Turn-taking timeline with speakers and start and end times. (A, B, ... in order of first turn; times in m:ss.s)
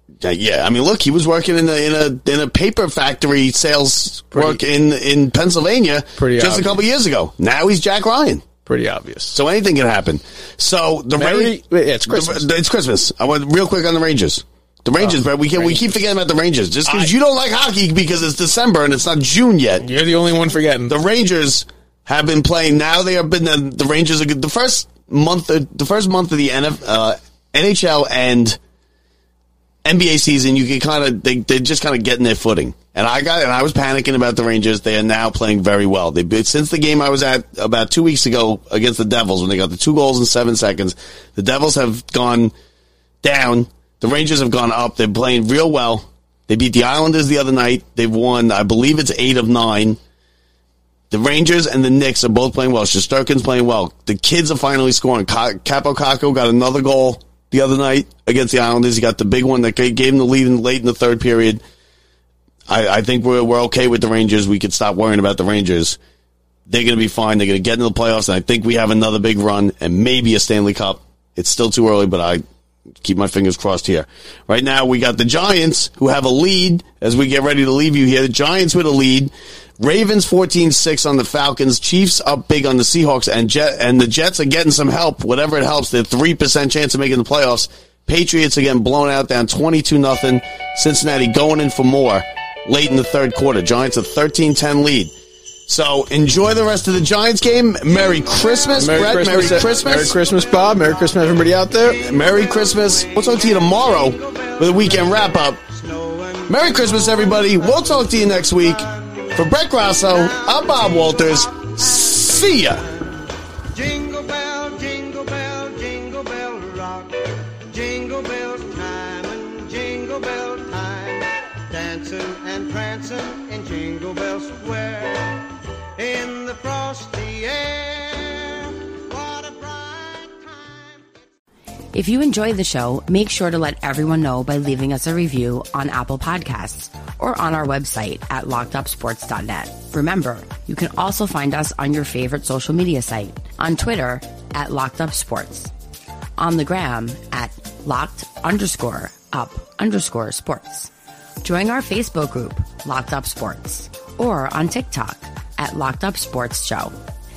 0:00.2-0:08.4 A
0:04.3-0:04.6 B
0:06.2-0:06.8 B
0:08.6-0:09.4 B
0:09.3-0:11.6 A
0:11.2-0:12.4 B
0:12.1-0:19.8 A
0:15.0-0:15.9 B
0:19.8-0:21.0 B
0:20.9-0:28.6 A
0:29.8-0:42.5 A
0:43.2-0:50.0 A
0:51.1-1:01.6 A
1:02.7-1:06.0 A
1:06.7-1:12.4 A
1:13.0-1:35.1 A
1:35.7-1:40.1 A
1:38.8-1:42.0 B
1:42.0-1:45.6 A
1:42.9-1:49.4 C
1:46.5-1:52.8 A
1:50.1-1:52.2 C
1:52.7-1:53.1 C
1:53.7-2:10.9 C
2:11.9-2:25.7 D
2:26.4-2:30.9 D
2:31.4-2:37.0 D